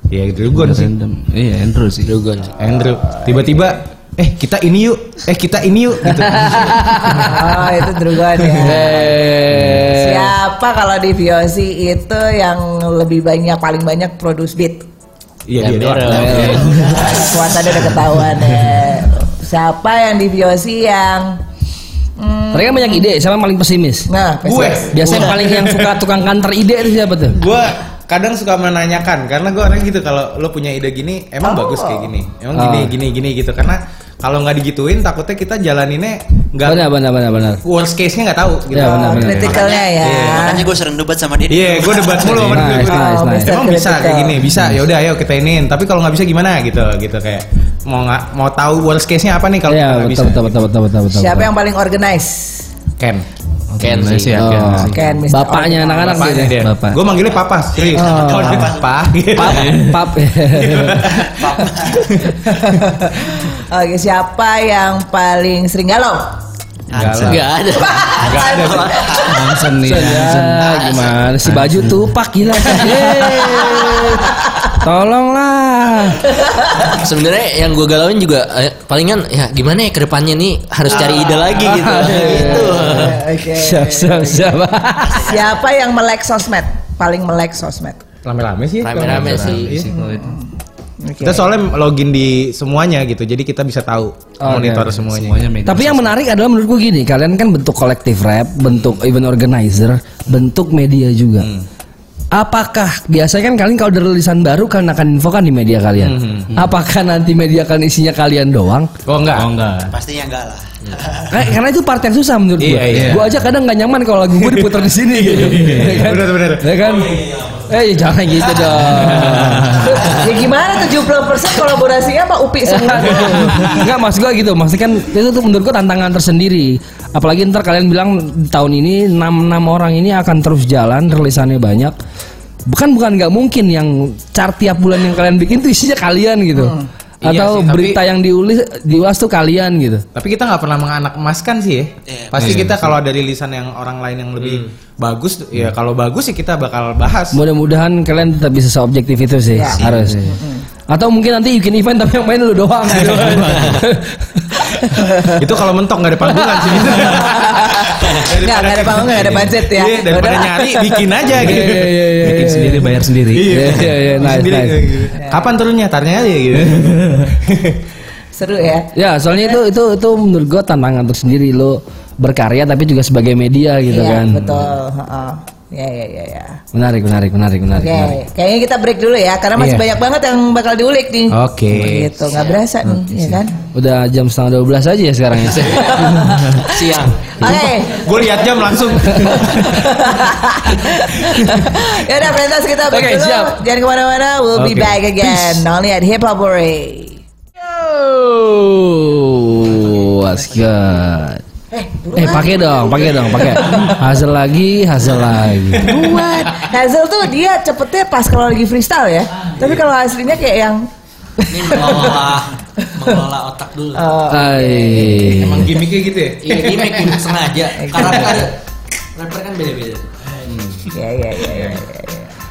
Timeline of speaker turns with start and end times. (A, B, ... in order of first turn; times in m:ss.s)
0:00.1-0:00.9 A
0:00.5-0:02.1 B
0:02.0-0:02.5 C
0:02.6-0:07.0 A
0:06.7-0:07.3 D
0:07.2-0:09.1 E
0:08.6-0:10.3 D
0:10.0-0:14.9 E
0:15.5-0:16.7 A
0:15.6-0:17.2 C
0:16.1-0:16.7 D
0:16.8-0:21.4 E
0:22.2-0:23.1 E
0:22.5-0:24.1 D
0:24.1-0:25.2 E
0:24.4-0:26.0 A
0:24.9-0:27.4 D
0:27.3-0:36.9 A
0:31.4-0:32.1 E
0:32.5-0:32.9 D
0:36.6-0:37.6 D
0:37.6-0:39.4 A
0:38.7-0:39.6 D
0:38.8-0:40.7 E
0:39.4-0:42.6 F
0:40.0-0:40.6 A
0:41.5-0:50.6 A
0:42.4-0:43.6 D
0:42.7-0:44.4 E
0:49.7-0:51.5 D
0:51.1-0:52.7 E
0:53.0-0:53.2 A
0:53.8-0:55.1 B
0:53.8-0:54.4 C
0:54.4-0:56.6 D
0:54.9-0:56.5 E
0:56.0-0:59.8 A
0:56.6-0:57.0 B
0:57.2-0:59.3 F
0:58.0-0:58.7 D
0:59.3-1:01.0 D
0:59.5-1:00.0 B
1:00.5-1:01.4 A
1:01.2-1:02.1 F
1:02.1-1:02.8 A
1:02.5-1:06.4 E
1:06.9-1:07.3 F
1:06.9-1:07.5 A
1:07.0-1:07.3 B
1:07.2-1:08.2 C
1:07.8-1:09.3 E
1:08.2-1:09.1 A
1:09.0-1:09.3 F
1:09.2-1:10.7 B
1:09.8-1:16.2 D
1:10.8-1:11.1 C
1:11.4-1:12.1 B
1:16.9-1:23.2 C
1:20.9-1:22.1 F
1:21.7-1:25.3 D
1:22.4-1:24.6 E
1:25.0-1:25.6 F
1:25.2-1:28.0 E
1:28.2-1:29.9 A
1:28.8-1:29.8 C
1:29.0-1:30.3 B
1:29.9-1:30.5 E
1:31.0-1:31.5 E
1:31.2-1:35.4 A
1:34.4-1:35.0 D
1:35.0-1:36.1 B
1:35.7-1:41.5 D
1:42.3-1:48.9 D
1:46.0-1:46.5 A
1:49.1-1:49.5 A
1:49.3-1:49.9 B
1:49.9-1:51.3 F
1:51.3-1:59.8 D
1:52.6-1:53.3 A
1:52.9-1:53.2 B
1:54.4-1:56.8 A
1:55.6-1:56.0 B
1:59.0-1:59.9 B
1:59.8-2:03.6 E
2:02.6-2:12.0 D
2:12.7-2:20.0 D
2:16.6-2:16.9 E
2:17.2-2:18.0 A
2:20.2-2:27.4 A
2:22.1-2:22.7 F
2:22.4-2:22.8 B
2:27.3-2:30.2 D
2:29.5-2:30.6 E
2:29.7-2:30.0 F
2:29.9-2:30.4 B
2:30.9-2:35.2 D
2:33.1-2:33.8 B
2:35.4-2:41.9 A
2:37.3-2:41.1 E
2:41.4-2:44.9 D
2:42.2-2:43.7 B
2:43.3-2:47.8 A
2:45.2-2:45.5 E
2:46.7-2:47.3 B
2:48.4-2:49.6 E
2:49.0-2:54.5 D
2:53.9-2:56.6 E
2:54.4-2:54.7 A
2:56.7-2:58.2 D
2:57.8-3:03.5 E
2:59.6-2:59.9 A
3:01.3-3:02.2 A
3:02.3-3:02.6 C
3:03.0-3:03.3 B
3:03.7-3:05.9 D
3:05.4-3:07.3 C
3:05.8-3:06.7 E
3:07.4-3:08.2 E
3:07.9-3:09.8 A
3:09.2-3:17.2 E
3:12.9-3:13.6 D
3:14.6-3:15.0 A
3:17.6-3:21.4 D
3:21.7-3:24.0 E
3:22.2-3:26.1 D
3:25.8-3:32.2 E
3:31.5-3:34.0 C
3:34.0-3:35.7 E
3:34.3-3:35.7 D
3:35.4-3:37.2 A
3:36.4-3:38.6 C
3:37.8-3:38.1 E
3:39.2-3:40.1 C
3:40.5-3:40.8 A
3:40.9-3:42.3 E